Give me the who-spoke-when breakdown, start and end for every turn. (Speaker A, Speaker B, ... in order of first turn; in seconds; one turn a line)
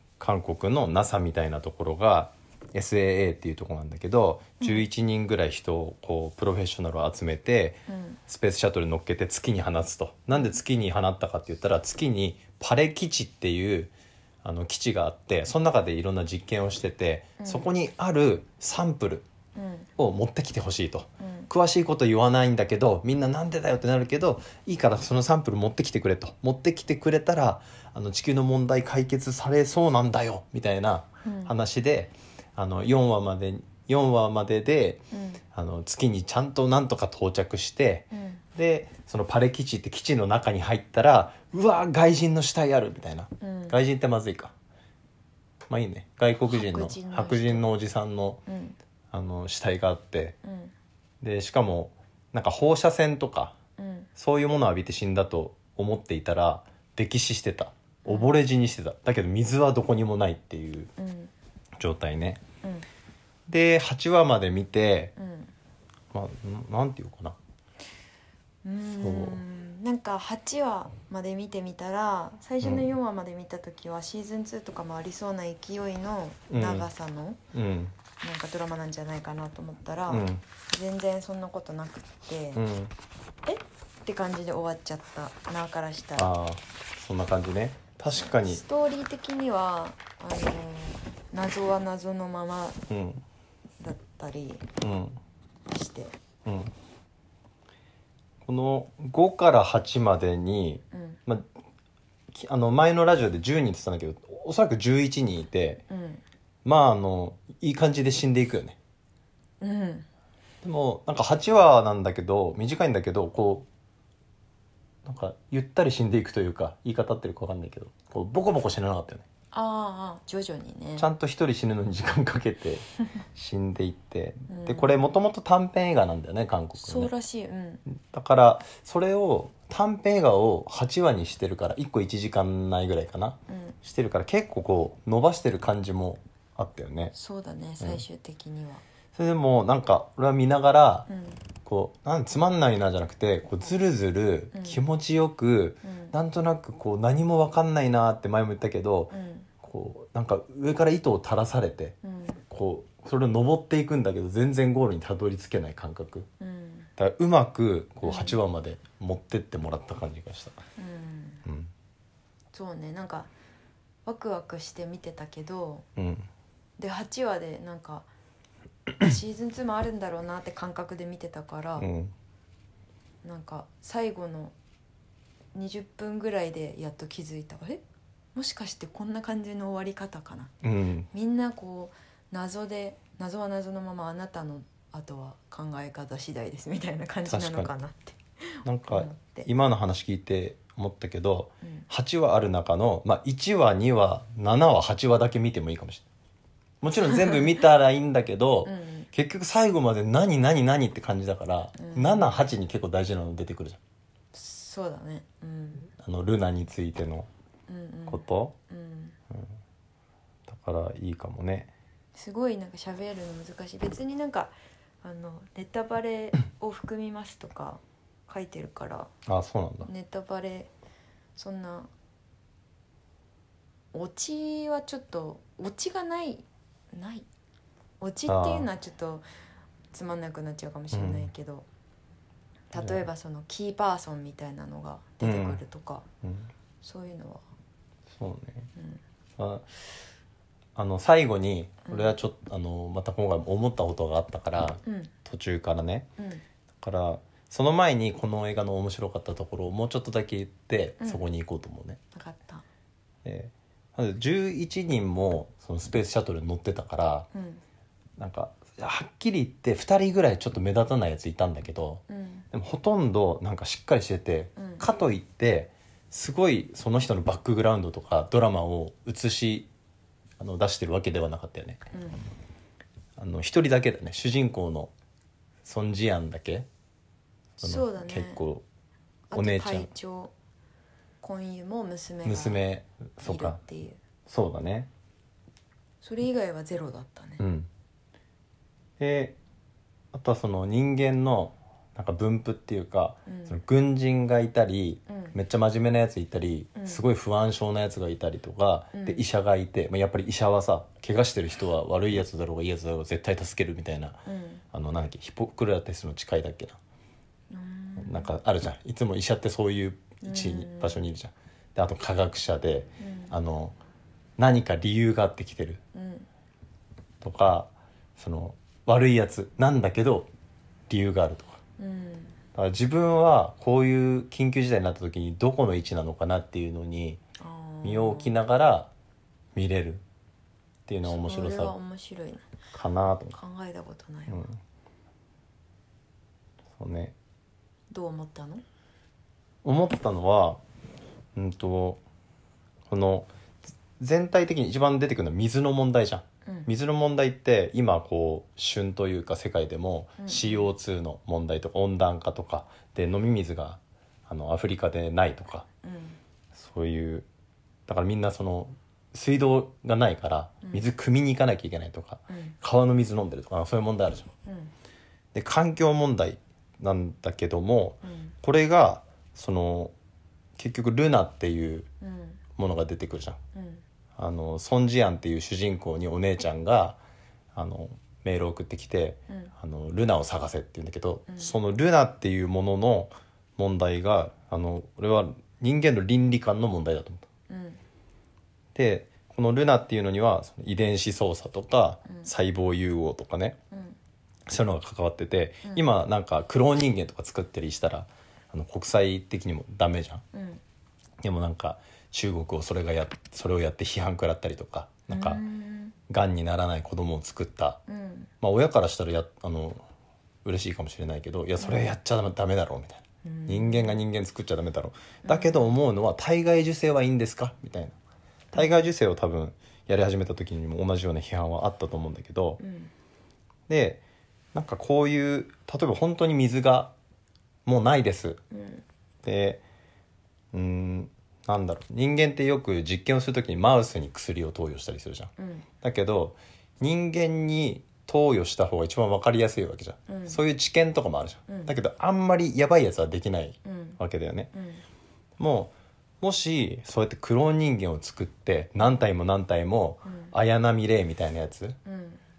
Speaker A: 0.2-19.3
Speaker B: 7.9-8.2
Speaker B: 17.4-17.7
Speaker B: 19.6-19.9
Speaker A: 20.0-44.5
Speaker B: 21.2-21.5
Speaker B: 31.2-31.6
Speaker B: 35.1-35.4
Speaker B: 38.1-38.4
Speaker B: 43.4-43.8
Speaker A: 45.7-48.4
Speaker B: 46.5-47.7
Speaker B: 48.5-48.8
Speaker A: 49.1-50.4
Speaker B: 50.4-50.7
Speaker A: 51.2-53.6
Speaker B: 53.8-54.1
Speaker A: 54.2-60.9
Speaker B: 58.0-58.4
Speaker B: 61.0-61.3
Speaker A: 61.8-62.4
Speaker A: 63.5-65.2
Speaker B: 65.2-65.5
Speaker A: 66.1-67.4
Speaker B: 68.6-77.4
Speaker A: 69.0-69.4
Speaker A: 76.5-76.9
Speaker A: 77.5-78.0
Speaker B: 78.2-82.7
Speaker A: 80.1-80.4
Speaker A: 82.5-82.9
Speaker B: 83.5-86.3
Speaker A: 86.2-88.6
Speaker B: 88.1-92.9
Speaker A: 92.9-93.2
Speaker B: 93.8-94.7
Speaker A: 94.8-95.2
Speaker B: 95.7-96.2
Speaker A: 96.5-96.7
Speaker A: 98.4-101.5
Speaker B: 100.9-101.2
Speaker A: 102.3-105.8
Speaker B: 105.9-106.2
Speaker A: 106.7-108.8
Speaker B: 109.6-110.1
Speaker A: 110.6-113.7
Speaker A: 115.0-119.2
Speaker B: 119.5-121.1
Speaker A: 121.0-127.1
Speaker B: 124.5-125.1
Speaker B: 126.8-127.8
Speaker A: 127.9-137.1
Speaker B: 133.5-133.8
Speaker B: 137.2-138.8
Speaker A: 139.2-141.1
Speaker B: 141.1-141.4
Speaker A: 141.7-152.0
Speaker B: 144.5-144.8
Speaker B: 145.8-146.1
Speaker B: 149.1-149.5
Speaker B: 152.0-152.4
Speaker A: 152.5-156.3
Speaker B: 156.4-156.9
Speaker A: 157.0-160.6
Speaker B: 158.0-158.4
Speaker B: 160.8-161.4
Speaker A: 161.5-161.7
Speaker B: 162.5-163.3
Speaker B: 164.1-165.9
Speaker A: 166.0-166.3
Speaker B: 166.8-168.1
Speaker B: 169.0-171.9
Speaker A: 171.8-172.1
Speaker B: 173.2-174.6
Speaker B: 175.5-177.8
Speaker B: 178.3-180.5
Speaker A: 180.6-181.1
Speaker B: 181.1-189.5
Speaker A: 187.3-187.7
Speaker A: 188.7-196.1
Speaker A: 196.8-203.8
Speaker B: 197.1-197.5
Speaker B: 198.7-199.1
Speaker B: 201.8-202.3
Speaker B: 204.3-205.9
Speaker A: 206.0-207.3
Speaker B: 207.7-209.2
Speaker A: 208.1-208.5
Speaker A: 210.5-211.7
Speaker B: 212.2-219.1
Speaker A: 219.3-219.9
Speaker B: 219.8-220.7
Speaker B: 221.4-221.9
Speaker B: 223.9-227.3
Speaker B: 228.0-229.2
Speaker A: 228.3-228.7
Speaker B: 229.9-231.7
Speaker A: 230.9-231.3
Speaker B: 232.7-236.1
Speaker A: 232.8-233.0
Speaker A: 235.2-235.6
Speaker A: 236.2-236.5
Speaker B: 236.8-237.4
Speaker A: 238.1-238.7
Speaker B: 238.8-239.0
Speaker A: 239.4-239.7
Speaker A: 240.8-246.1
Speaker B: 241.8-242.2
Speaker B: 244.8-245.1
Speaker B: 246.2-246.4
Speaker A: 246.8-252.0
Speaker B: 251.0-251.2
Speaker B: 252.1-252.6
Speaker A: 253.2-257.3
Speaker B: 257.3-257.6
Speaker A: 258.2-269.7
Speaker B: 262.1-262.5
Speaker B: 264.6-264.8
Speaker A: 270.4-271.8
Speaker B: 271.9-272.2
Speaker A: 273.2-274.9
Speaker A: 275.6-276.7
Speaker A: 277.6-278.6
Speaker B: 277.6-278.4
Speaker B: 279.3-280.3
Speaker A: 279.3-279.9
Speaker B: 281.2-282.6
Speaker A: 282.2-283.6
Speaker B: 283.2-284.0
Speaker A: 284.3-284.9
Speaker B: 286.0-287.4
Speaker A: 287.4-287.7
Speaker A: 289.0-289.4
Speaker A: 290.1-304.2
Speaker B: 293.3-293.6
Speaker B: 295.1-295.4
Speaker B: 296.8-297.0
Speaker B: 298.9-299.2
Speaker B: 304.3-304.6
Speaker A: 304.7-306.8
Speaker B: 307.5-308.3
Speaker A: 308.0-313.8
Speaker B: 310.2-311.0
Speaker B: 313.0-313.3
Speaker A: 314.4-315.8
Speaker B: 315.9-316.3
Speaker A: 317.2-320.3
Speaker A: 320.9-321.6
Speaker B: 321.8-322.4
Speaker A: 322.6-327.2
Speaker B: 327.4-328.4
Speaker A: 327.8-328.9
Speaker A: 329.5-330.0
Speaker A: 330.9-331.8
Speaker B: 331.0-332.5
Speaker A: 332.7-333.4
Speaker B: 333.3-334.5
Speaker A: 334.3-334.6
Speaker A: 336.8-337.1
Speaker B: 337.9-338.6
Speaker A: 339.6-340.6
Speaker A: 341.4-342.0
Speaker A: 342.9-343.3
Speaker A: 344.0-355.7
Speaker B: 350.2-350.7
Speaker B: 355.8-356.2
Speaker A: 356.5-357.3
Speaker A: 357.9-364.3
Speaker B: 362.3-362.6
Speaker B: 364.4-364.7
Speaker A: 365.3-369.9
Speaker B: 368.0-368.4
Speaker A: 370.6-371.9
Speaker B: 372.0-372.4
Speaker A: 372.6-373.4
Speaker B: 373.5-373.8
Speaker A: 374.2-377.0
Speaker A: 377.6-387.3
Speaker B: 381.3-381.6
Speaker B: 387.5-387.8
Speaker A: 388.8-393.6
Speaker B: 393.7-394.0
Speaker A: 394.5-400.2
Speaker B: 400.3-400.6
Speaker A: 401.2-405.4
Speaker B: 405.1-405.9
Speaker A: 406.1-407.8
Speaker B: 407.9-408.3
Speaker A: 408.4-409.8
Speaker A: 410.4-418.0
Speaker B: 411.6-411.9
Speaker B: 413.2-414.0
Speaker B: 415.2-415.8
Speaker B: 418.5-418.9
Speaker A: 418.5-422.6
Speaker B: 422.6-422.9
Speaker A: 423.7-424.0
Speaker A: 424.5-426.9
Speaker A: 427.7-428.4
Speaker B: 428.5-428.8
Speaker A: 429.2-429.6
Speaker A: 430.5-444.5
Speaker B: 435.4-435.7
Speaker B: 440.1-440.4
Speaker B: 441.5-441.7
Speaker B: 443.6-444.0
Speaker B: 444.5-444.8
Speaker A: 445.4-451.8
Speaker B: 450.1-450.3
Speaker B: 451.9-452.2